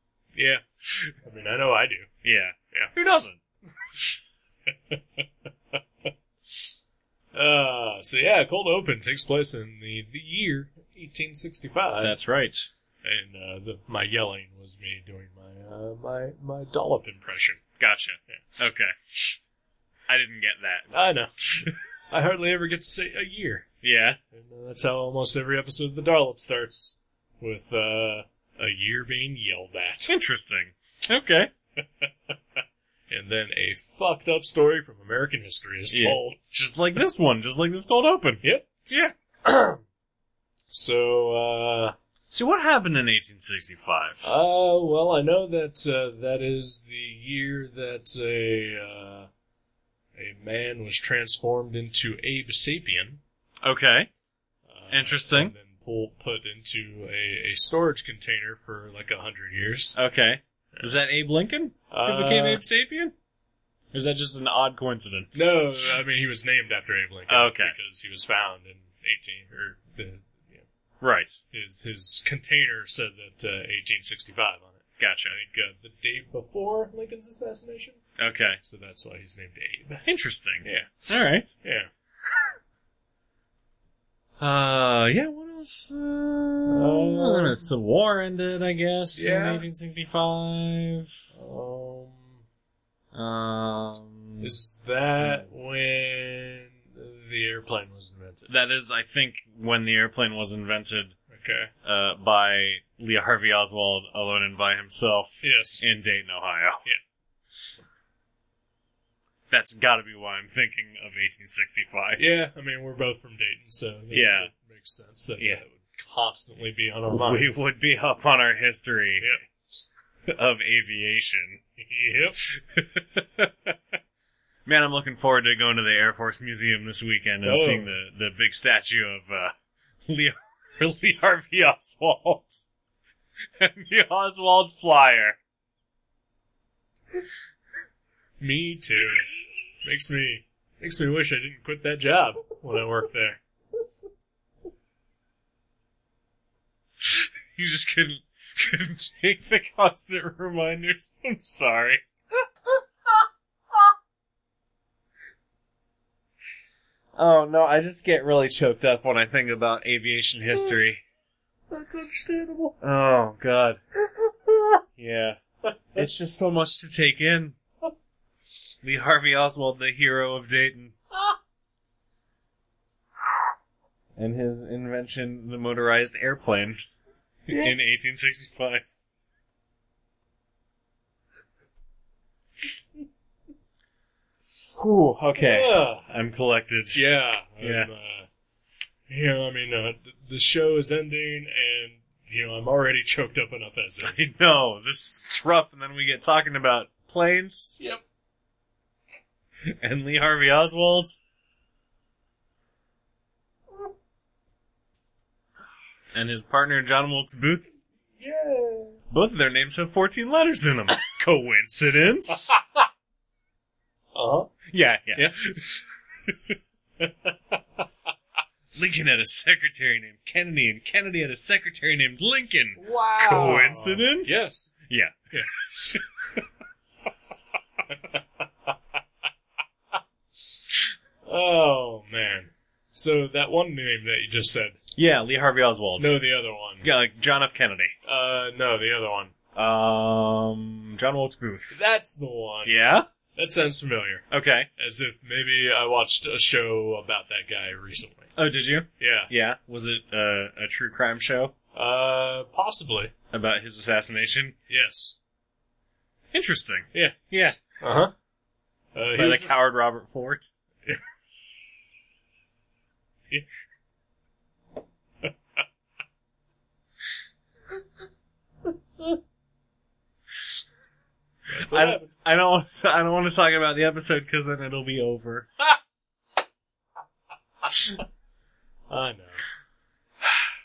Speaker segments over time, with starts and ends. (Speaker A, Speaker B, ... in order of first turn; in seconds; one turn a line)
Speaker A: 0.3-2.1
Speaker B: 2.2-3.4
Speaker A: 4.7-6.7
Speaker A: 7.3-12.2
Speaker B: 12.0-12.7
Speaker A: 13.0-17.6
Speaker B: 17.8-19.4
Speaker B: 20.1-20.9
Speaker A: 20.9-23.7
Speaker B: 23.8-24.2
Speaker A: 24.3-30.1
Speaker B: 30.1-31.5
Speaker A: 31.8-32.3
Speaker A: 33.1-36.4
Speaker B: 35.9-39.1
Speaker A: 38.4-38.7
Speaker A: 39.4-39.8
Speaker A: 40.7-41.9
Speaker B: 42.3-44.2
Speaker A: 44.2-49.3
Speaker A: 50.1-53.2
Speaker B: 53.6-54.1
Speaker A: 54.7-60.0
Speaker B: 54.9-55.5
Speaker B: 59.9-63.1
Speaker A: 61.9-62.6
Speaker B: 63.9-65.6
Speaker A: 65.3-70.6
Speaker B: 67.3-67.7
Speaker B: 71.0-71.4
Speaker A: 71.5-78.0
Speaker B: 75.0-75.3
Speaker B: 78.2-78.6
Speaker A: 78.6-80.0
Speaker B: 80.0-81.5
Speaker A: 80.6-80.9
Speaker A: 81.6-81.9
Speaker B: 84.4-91.1
Speaker A: 86.7-87.6
Speaker A: 89.1-89.6
Speaker A: 91.3-92.4
Speaker B: 93.1-94.5
Speaker A: 94.4-98.5
Speaker B: 98.5-101.1
Speaker A: 101.3-101.7
Speaker B: 101.8-106.8
Speaker A: 105.4-105.8
Speaker B: 109.5-112.2
Speaker A: 112.2-117.7
Speaker B: 114.1-114.5
Speaker B: 117.1-119.3
Speaker B: 120.3-121.6
Speaker A: 121.8-122.4
Speaker B: 122.5-123.8
Speaker B: 124.7-129.5
Speaker A: 127.4-127.9
Speaker B: 130.1-132.7
Speaker B: 133.6-135.4
Speaker A: 138.4-139.3
Speaker A: 139.8-143.4
Speaker B: 147.0-152.0
Speaker B: 157.1-161.0
Speaker A: 161.7-162.8
Speaker B: 162.8-163.8
Speaker B: 165.0-165.4
Speaker B: 165.9-167.6
Speaker B: 168.8-170.9
Speaker B: 174.2-176.8
Speaker B: 177.5-178.8
Speaker B: 184.7-187.1
Speaker A: 185.4-186.0
Speaker A: 186.9-188.3
Speaker B: 187.6-187.9
Speaker A: 189.1-194.3
Speaker B: 194.0-197.8
Speaker B: 199.7-201.2
Speaker B: 206.1-207.8
Speaker A: 208.2-209.0
Speaker B: 209.1-212.6
Speaker A: 212.5-212.8
Speaker A: 214.1-214.5
Speaker B: 214.7-216.5
Speaker A: 217.0-217.8
Speaker B: 218.7-226.4
Speaker A: 222.8-224.7
Speaker A: 231.2-234.8
Speaker B: 234.9-236.2
Speaker A: 236.0-236.9
Speaker B: 236.8-237.9
Speaker A: 238.0-239.3
Speaker B: 239.5-241.8
Speaker A: 241.7-242.8
Speaker B: 242.6-243.1
Speaker A: 243.3-244.2
Speaker B: 244.3-244.7
Speaker A: 244.8-248.3
Speaker B: 248.3-251.5
Speaker A: 249.0-249.3
Speaker A: 251.7-253.1
Speaker B: 253.3-254.6
Speaker A: 254.7-255.2
Speaker B: 256.3-257.6
Speaker A: 257.8-258.1
Speaker A: 258.9-259.6
Speaker B: 259.1-260.5
Speaker A: 271.5-272.1
Speaker B: 271.6-275.5
Speaker A: 278.9-279.4